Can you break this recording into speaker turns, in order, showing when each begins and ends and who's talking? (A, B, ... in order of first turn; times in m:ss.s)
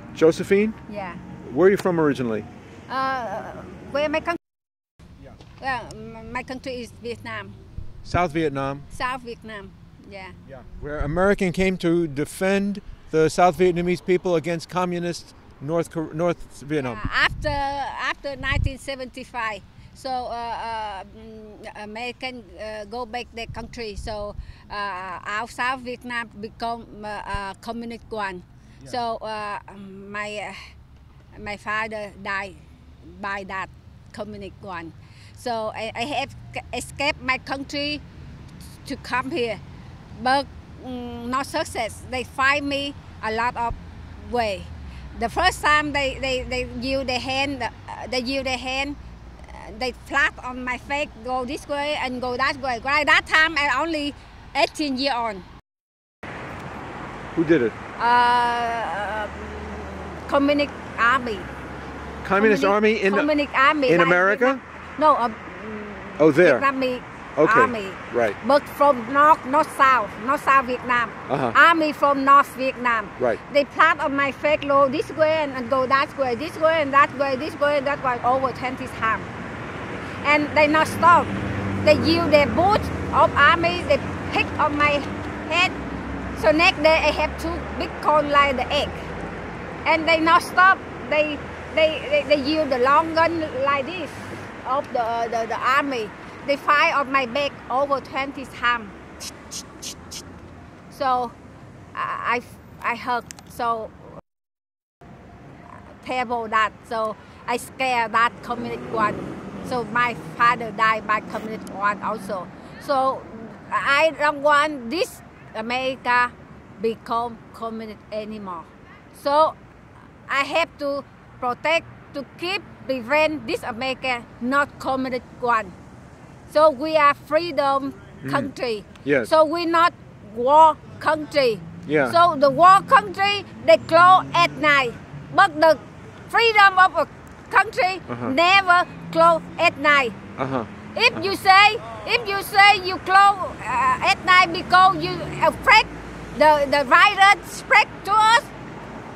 0:00.2-0:00.8 A
0:00.9-0:01.2 B
0:01.4-0:02.5 A
0:02.9-0:04.4 B
0:05.6-0:07.6 B
0:08.0-0:08.9 A
0:08.9-0:10.3 B
0:10.5-0:17.0 A
0:16.8-0:30.6 B
0:31.4-0:38.0 B
0:38.8-0:39.6 B
0:40.1-0:55.4 B
0:57.3-0:57.8 A
0:58.0-1:01.5 B
1:02.2-1:03.3 A
1:02.4-1:19.3 B
1:03.9-1:04.6 A
1:06.2-1:06.7 A
1:07.4-1:08.4 A
1:11.3-1:11.6 A
1:20.2-1:25.8 B
1:26.3-1:29.1 B
1:29.8-1:39.0 B
1:40.9-1:41.3 B
1:41.9-1:44.2 B
1:46.0-1:59.6 B
2:00.3-2:05.8 B
2:06.5-2:20.2 B
2:08.2-2:08.5 A
2:09.0-2:09.3 A
2:11.9-2:12.2 A
2:18.1-2:18.3 A
2:20.4-2:21.2 A
2:20.9-2:28.5 B